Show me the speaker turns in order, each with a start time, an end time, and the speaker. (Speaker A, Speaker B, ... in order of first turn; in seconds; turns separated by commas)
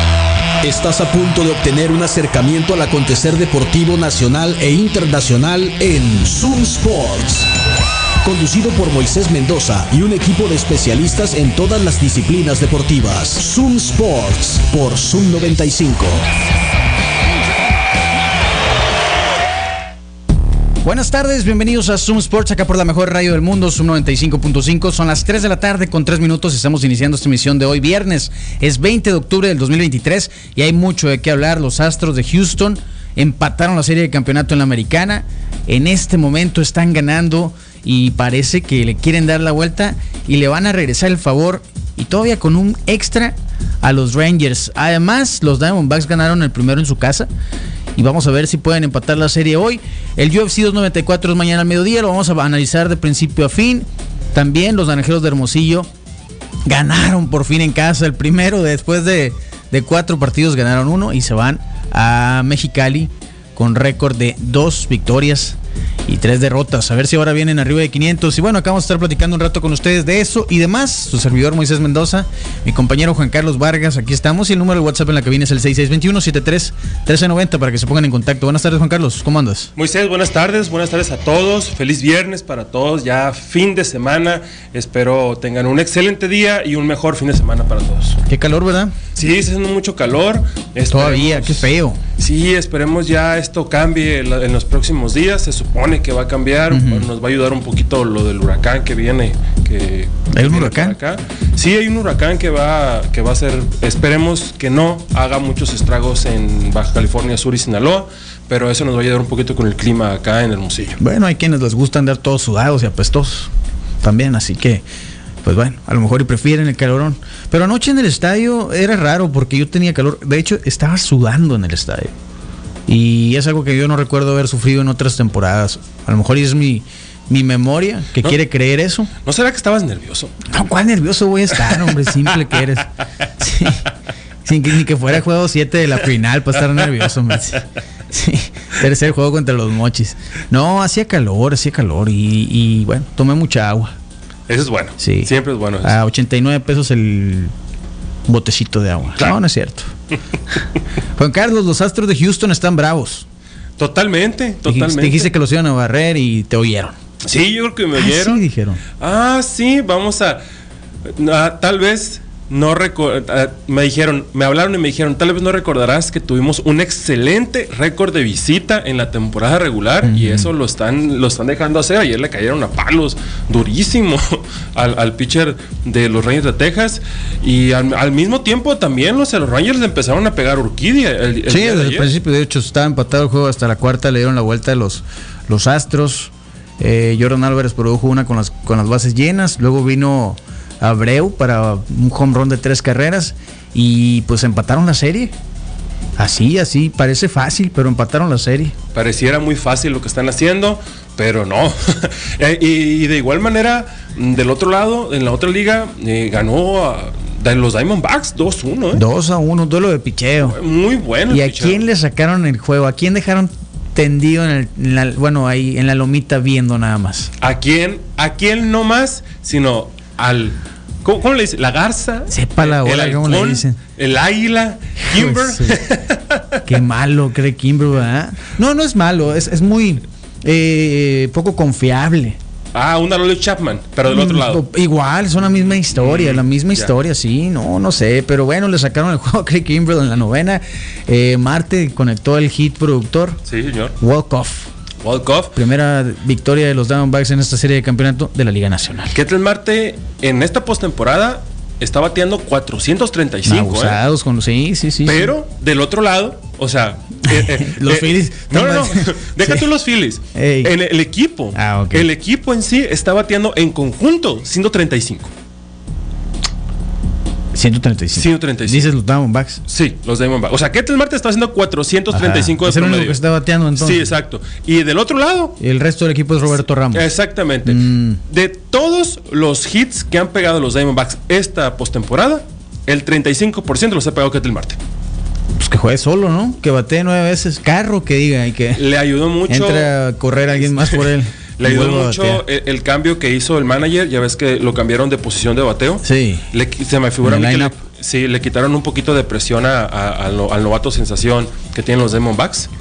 Speaker A: 0.6-7.5, Speaker A: 8.2-16.2, Speaker B: 20.8-47.3, Speaker B: 47.9-55.9, Speaker B: 56.6-79.7, Speaker C: 79.8-88.2, Speaker B: 88.3-88.9, Speaker C: 89.1-111.0, Speaker B: 90.9-92.0, Speaker B: 96.7-97.0, Speaker B: 100.3-101.0, Speaker B: 111.0-113.5, Speaker B: 114.0-114.8, Speaker B: 115.4-122.1, Speaker B: 122.9-129.1, Speaker C: 129.2-130.3, Speaker B: 130.4-133.8, Speaker B: 134.4-143.9, Speaker C: 144.5-145.9, Speaker B: 145.0-145.3, Speaker B: 145.8-147.5, Speaker B: 148.3-149.9, Speaker B: 151.2-153.2, Speaker C: 153.8-155.3, Speaker B: 154.7-156.9, Speaker C: 157.2-158.4, Speaker B: 157.9-158.8, Speaker C: 159.0-160.4, Speaker C: 161.0-182.1, Speaker B: 170.0-170.5, Speaker B: 181.5-195.3, Speaker B: 196.2-198.7, Speaker C: 198.9-209.0, Speaker B: 208.9-210.6, Speaker C: 210.4-211.8, Speaker B: 211.3-217.3, Speaker C: 217.4-226.6, Speaker B: 222.3-223.8, Speaker B: 225.1-225.8, Speaker B: 226.6-232.4, Speaker C: 232.7-234.6, Speaker B: 234.1-243.4, Speaker C: 235.9-236.9, Speaker C: 243.5-243.9, Speaker B: 244.0-244.7, Speaker C: 245.0-245.6, Speaker B: 245.5-249.1, Speaker C: 249.1-254.0, Speaker B: 253.4-255.3, Speaker C: 255.0-265.3, Speaker B: 257.3-259.6, Speaker B: 260.3-260.7, Speaker B: 261.5-262.1, Speaker B: 267.5-269.6, Speaker C: 268.1-268.9, Speaker C: 269.7-273.2, Speaker B: 272.1-274.1, Speaker C: 273.8-275.6, Speaker B: 275.6-277.1, Speaker C: 276.4-284.8, Speaker B: 277.6-278.2, Speaker B: 285.6-288.8, Speaker C: 288.8-289.9, Speaker B: 289.5-292.4, Speaker C: 290.6-291.0, Speaker C: 291.6-302.7, Speaker B: 296.0-296.4, Speaker B: 297.2-297.7